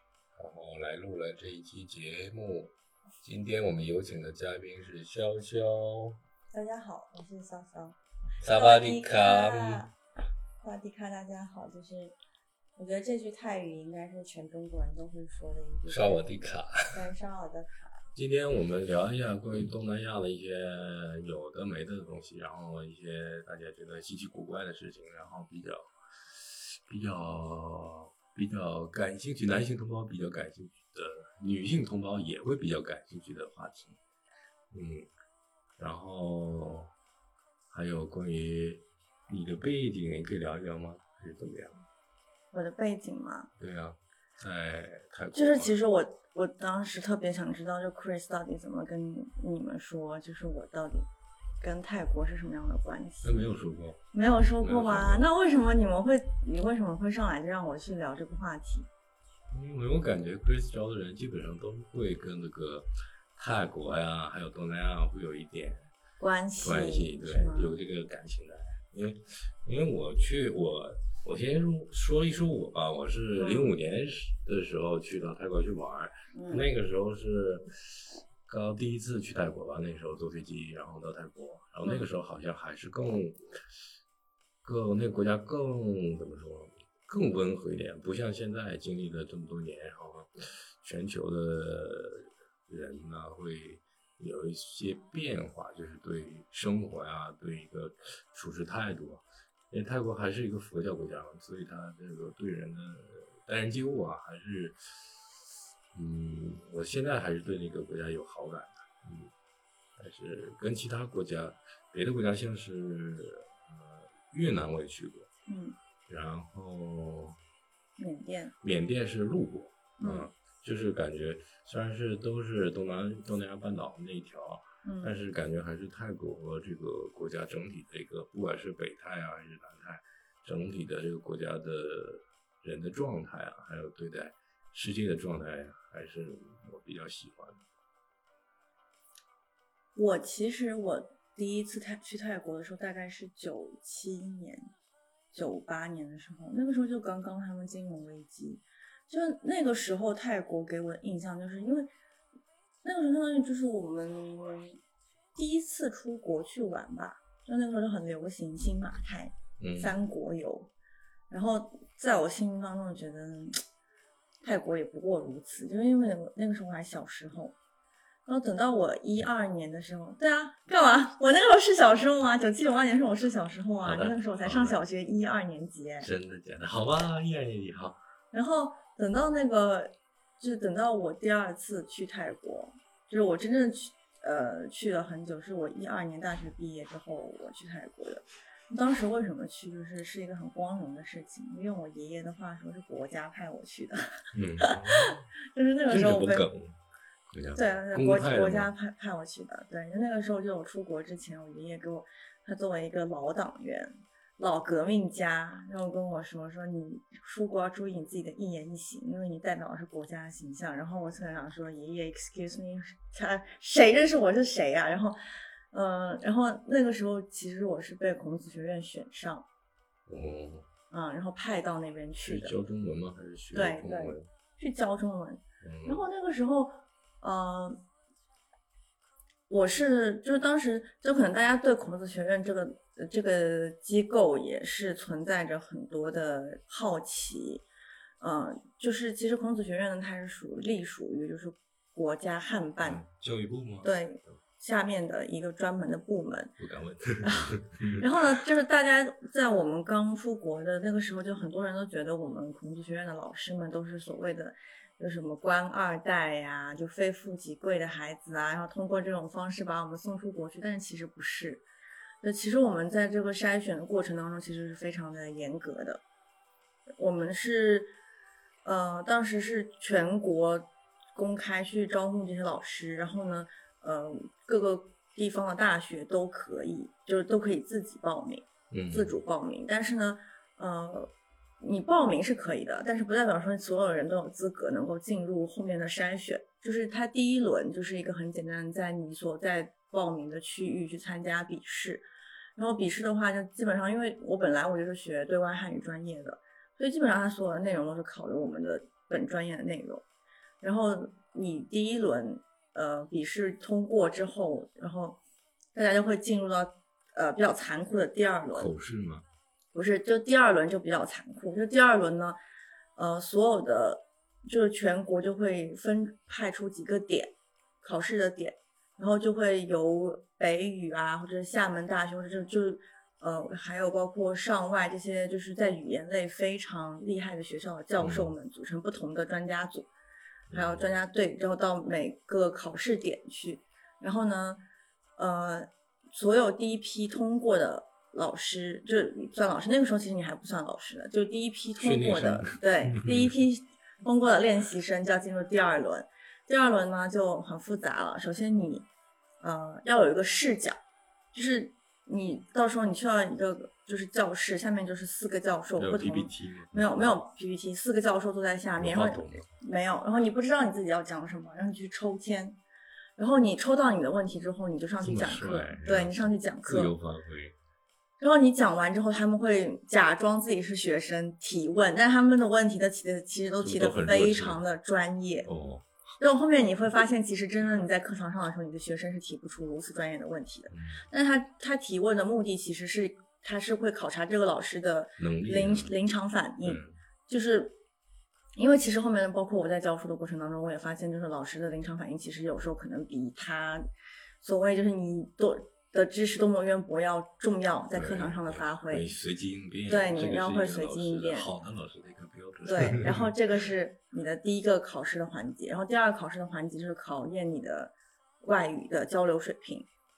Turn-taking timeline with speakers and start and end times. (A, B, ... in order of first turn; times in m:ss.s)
0:00.4-0:06.2 A
0:06.5-0:08.0 B
0:08.4-0:09.8 A
0:08.5-0:09.9 B
0:10.6-0:12.1 B
0:12.8-0:16.4 B
0:15.8-0:16.9 A
0:16.9-0:18.0 B
0:18.1-0:34.0 A
0:34.7-0:35.1 A
0:35.8-0:36.9 A
0:37.7-0:41.8 A
0:42.5-0:43.5 B
0:43.6-0:45.8 A
0:45.3-0:51.1 B
0:51.6-0:53.4 B
0:53.2-0:55.2 A
0:54.1-0:58.9 B
0:59.5-1:05.9 A
1:06.2-1:07.8 B
1:06.6-1:23.4 A
1:13.4-1:13.7 B
1:16.3-1:16.6 B
1:24.6-1:45.3 A
1:45.9-1:49.3 A
1:50.0-1:55.3 A
1:55.5-1:55.8 B
1:56.1-1:57.4 A
1:58.0-1:58.5 B
1:58.6-2:17.6 A
2:00.0-2:00.3 B
2:04.8-2:05.2 B
2:20.0-2:24.6 B
2:25.3-2:31.9 B
2:32.8-2:34.8 B
2:35.3-2:40.7 B
2:39.6-2:39.9 A
2:41.3-2:43.6 B
2:44.4-2:47.6 B
2:48.2-2:56.1 B
2:53.8-2:54.8 A
2:56.0-2:58.0 A
2:58.3-3:16.5 B
3:14.3-3:15.2 A
3:15.9-3:16.8 A
3:17.3-3:18.7 A
3:17.5-3:35.2 B
3:35.7-3:39.5 B
3:40.1-3:40.7 A
3:40.9-3:42.6 B
3:42.2-3:44.3 A
3:43.5-3:47.8 B
3:45.6-3:46.0 A
3:49.5-3:57.6 B
3:58.2-4:03.0 B
4:02.8-4:03.9 A
4:03.8-4:06.6 B
4:06.6-4:08.1 A
4:07.2-4:21.6 B
4:22.2-4:26.0 B
4:27.0-4:27.9 B
4:28.6-4:52.0 B
4:38.7-4:39.1 A
4:52.6-5:00.0 B
5:00.6-5:05.2 B
5:05.7-5:08.7 B
5:08.5-5:09.2 A
5:09.7-5:12.4 B
5:13.0-5:29.9 B
5:28.0-5:28.3 A
5:30.5-5:30.9 A
5:30.5-5:34.6 B
5:35.2-5:48.9 B
5:41.8-5:43.3 A
5:49.4-5:50.8 B
5:51.3-6:02.6 B
5:55.8-5:57.1 A
5:58.8-5:59.5 A
6:03.2-6:06.9 B
6:05.0-6:07.5 A
6:08.2-6:15.5 B
6:13.6-6:14.6 A
6:15.4-6:15.9 A
6:16.2-6:27.8 B
6:20.7-6:21.0 A
6:25.2-6:25.9 A
6:26.6-6:26.9 A
6:28.6-6:33.9 B
6:34.4-6:39.1 B
6:37.9-6:43.3 A
6:39.9-6:41.5 B
6:42.6-6:49.9 B